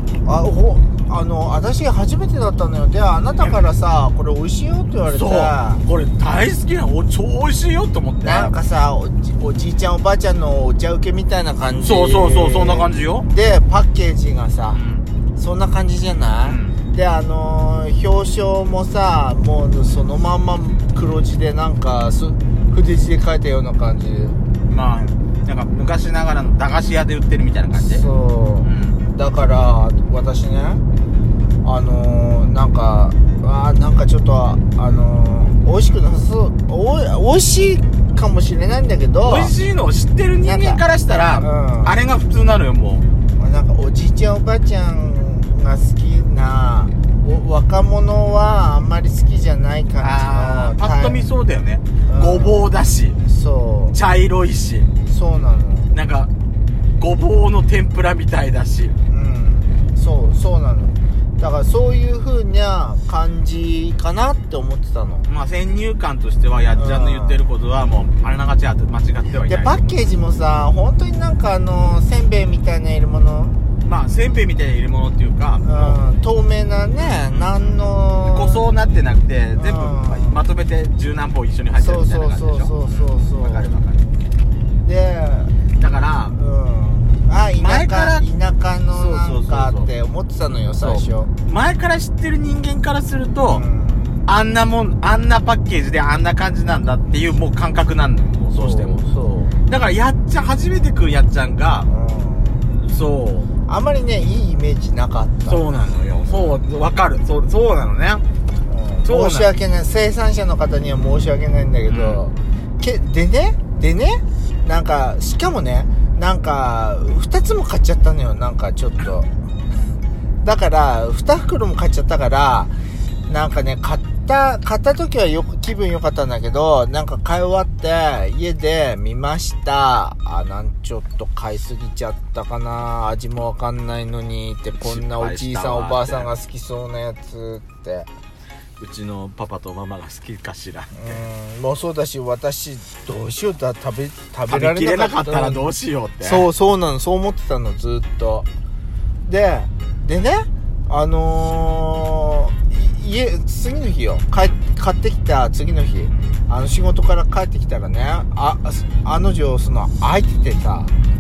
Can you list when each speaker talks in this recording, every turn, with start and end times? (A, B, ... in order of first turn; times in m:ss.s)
0:00.2-0:05.8 A
0:05.0-0:08.5 B
0:08.2-0:14.8 A
0:11.8-0:13.3 B
0:14.7-0:15.0 B
0:15.4-0:24.4 A
0:16.4-0:16.8 B
0:24.7-0:28.0 B
0:27.7-0:30.8 A
0:28.6-0:29.0 B
0:31.6-0:39.5 A
0:39.2-0:43.0 B
0:40.4-0:40.8 A
0:41.3-0:42.0 A
0:43.4-0:51.3 A
0:50.0-0:53.2 B
0:52.0-0:52.7 A
0:53.2-0:54.0 A
0:53.9-0:54.9 B
0:55.0-0:55.9 A
0:55.9-0:56.3 B
0:57.0-0:59.0 B
0:59.1-1:05.3 A
1:05.3-1:10.0 B
1:06.7-1:07.4 A
1:09.4-1:13.6 A
1:13.8-1:16.0 B
1:15.6-1:18.7 A
1:17.0-1:24.1 B
1:19.6-1:20.4 A
1:21.8-1:23.7 A
1:24.8-1:25.6 A
1:25.8-1:26.4 B
1:26.3-1:31.3 A
1:27.6-1:28.2 B
1:28.9-1:29.9 B
1:30.8-1:33.6 B
1:33.5-1:34.3 A
1:34.2-1:39.0 B
1:38.5-1:39.6 A
1:39.6-1:41.9 B
1:41.8-1:42.7 A
1:42.7-1:43.5 B
1:43.7-1:45.6 A
1:45.5-1:48.2 B
1:46.2-1:46.6 A
1:48.6-1:59.3 A
1:49.0-1:49.5 B
1:51.9-1:52.2 B
2:00.4-2:18.1 A
2:14.8-2:16.3 B
2:18.8-2:21.2 B
2:20.9-2:25.7 A
2:24.5-2:26.5 B
2:26.2-2:28.5 A
2:29.2-2:40.9 A